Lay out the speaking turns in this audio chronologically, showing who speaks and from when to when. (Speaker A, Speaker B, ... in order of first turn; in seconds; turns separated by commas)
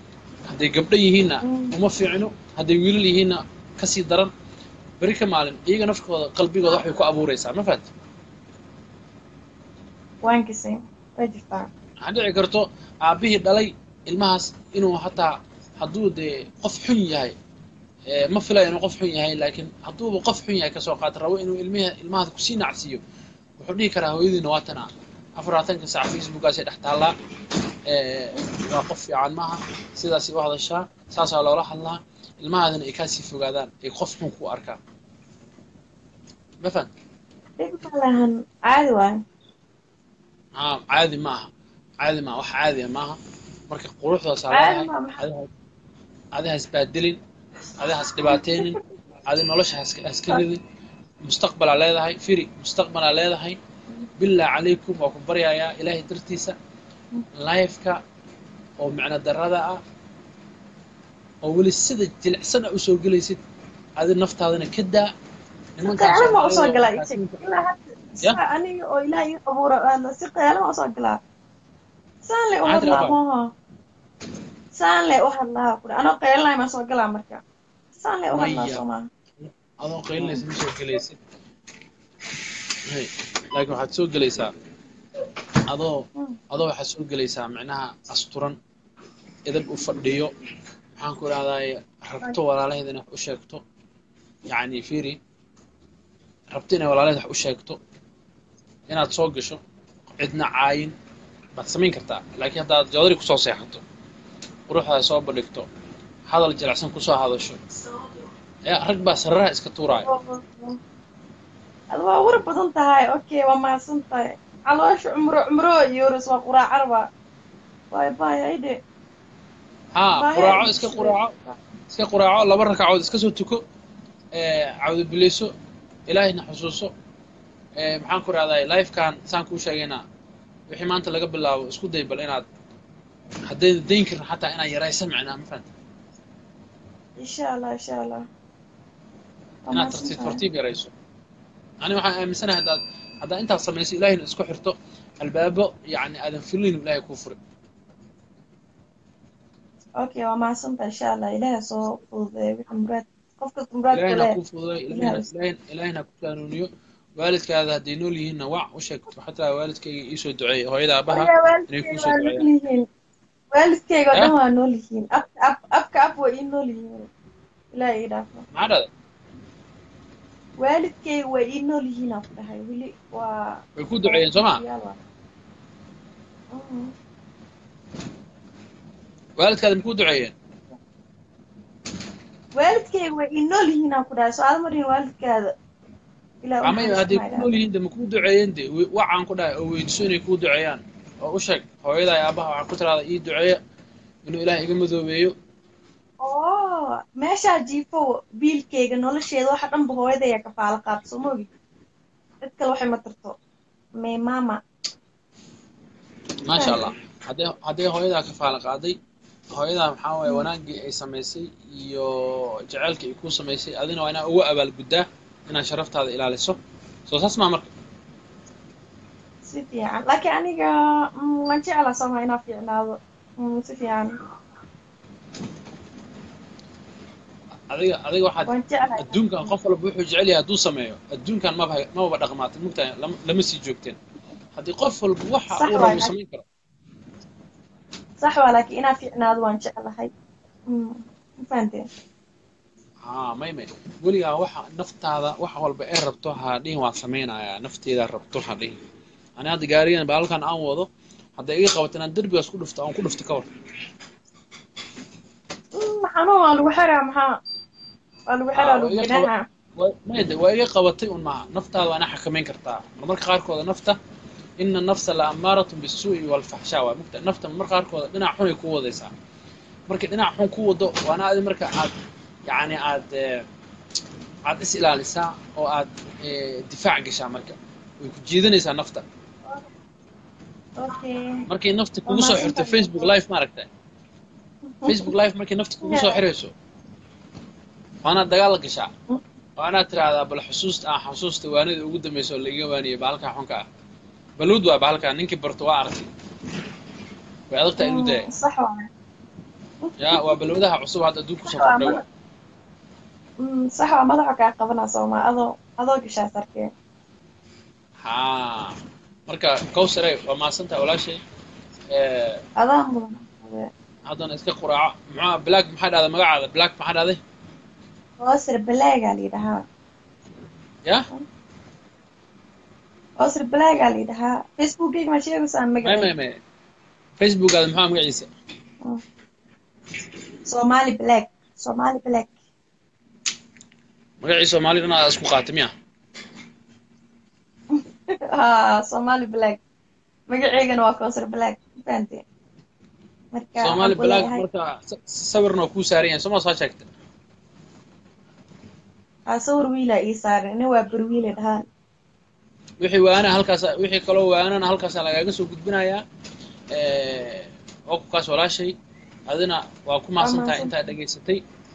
Speaker A: 0.5-4.3, Speaker B: 1.4-1.7, Speaker A: 5.0-7.8, Speaker B: 10.2-11.7, Speaker A: 12.0-17.3, Speaker A: 18.1-23.0, Speaker A: 23.6-27.1, Speaker A: 27.9-34.8, Speaker A: 36.6-36.9, Speaker B: 37.6-39.2, Speaker A: 40.6-41.5, Speaker A: 42.0-43.2, Speaker A: 43.7-45.5, Speaker B: 44.5-45.2, Speaker A: 46.3-47.2, Speaker A: 47.8-50.6, Speaker B: 48.3-48.7, Speaker A: 51.2-53.6, Speaker A: 54.2-56.5, Speaker A: 57.4-58.0, Speaker A: 58.8-59.8, Speaker A: 61.4-63.4, Speaker A: 64.0-65.1, Speaker A: 65.8-67.4, Speaker B: 65.8-71.2, Speaker B: 72.2-73.4, Speaker A: 72.6-73.2, Speaker B: 74.7-77.4, Speaker B: 78.0-79.0, Speaker A: 78.3-78.8, Speaker A: 79.4-81.2, Speaker B: 80.2-80.4, Speaker A: 82.9-84.5, Speaker A: 85.7-88.5, Speaker A: 89.5-90.3, Speaker A: 91.0-93.6, Speaker A: 94.5-95.2, Speaker A: 96.5-97.8, Speaker A: 98.9-99.6, Speaker A: 100.2-100.9, Speaker A: 101.5-103.8, Speaker A: 104.7-105.7, Speaker A: 106.3-107.6, Speaker A: 108.7-110.1, Speaker B: 110.0-110.8, Speaker B: 111.9-117.1, Speaker B: 117.9-118.8, Speaker A: 120.0-121.3, Speaker B: 120.2-121.6, Speaker A: 121.9-123.6, Speaker A: 124.3-125.5, Speaker A: 126.1-126.9, Speaker A: 127.8-130.0, Speaker A: 130.7-132.4, Speaker A: 133.5-135.7, Speaker B: 137.2-138.2, Speaker B: 139.7-140.4, Speaker A: 139.7-140.9, Speaker A: 141.8-147.4, Speaker B: 150.0-154.3, Speaker A: 153.9-156.7, Speaker B: 154.9-155.2, Speaker A: 157.2-162.4, Speaker B: 161.1-162.9, Speaker B: 163.5-167.1, Speaker B: 167.7-168.4, Speaker A: 168.5-168.9, Speaker B: 170.6-173.5, Speaker A: 173.8-174.6, Speaker B: 174.0-175.0, Speaker B: 176.5-176.9, Speaker A: 179.4-180.3, Speaker B: 182.6-185.5, Speaker B: 186.4-187.5, Speaker A: 186.6-193.6, Speaker A: 194.2-195.3, Speaker B: 196.2-201.5, Speaker B: 202.4-203.3, Speaker B: 204.0-204.6, Speaker A: 206.4-209.0, Speaker B: 206.5-206.8, Speaker A: 209.5-217.7, Speaker B: 219.4-224.2, Speaker A: 227.7-234.0, Speaker B: 228.5-229.5, Speaker A: 234.6-236.4, Speaker B: 235.5-236.1, Speaker B: 238.2-240.1, Speaker B: 240.7-241.8, Speaker A: 243.0-248.7, Speaker A: 249.4-253.5, Speaker B: 255.8-257.4, Speaker B: 258.3-259.4, Speaker A: 258.5-264.0, Speaker A: 264.6-269.1, Speaker A: 269.9-271.9, Speaker A: 272.5-273.4, Speaker A: 274.4-279.0, Speaker B: 280.8-281.4, Speaker A: 281.5-283.7, Speaker B: 282.1-283.1, Speaker B: 284.8-285.1, Speaker A: 284.9-286.5, Speaker B: 285.8-286.2, Speaker A: 288.0-288.9, Speaker A: 289.6-293.6, Speaker A: 294.4-296.1, Speaker A: 297.5-298.3, Speaker B: 297.8-298.9, Speaker B: 299.9-300.4, Speaker A: 300.0-302.0, Speaker B: 301.4-302.0, Speaker B: 303.4-306.7, Speaker A: 308.0-308.7, Speaker A: 309.3-311.2, Speaker A: 311.9-312.4, Speaker B: 312.6-313.7, Speaker A: 314.1-317.2, Speaker B: 318.2-319.6, Speaker B: 323.2-326.1, Speaker A: 325.8-326.4, Speaker A: 327.2-328.3, Speaker B: 330.5-332.3, Speaker A: 334.2-335.7, Speaker B: 337.8-339.6, Speaker B: 340.3-342.2, Speaker B: 343.3-344.4, Speaker A: 343.6-346.9, Speaker B: 349.3-351.6, Speaker A: 352.8-356.0, Speaker A: 356.7-358.7, Speaker A: 359.3-361.4, Speaker B: 360.2-360.7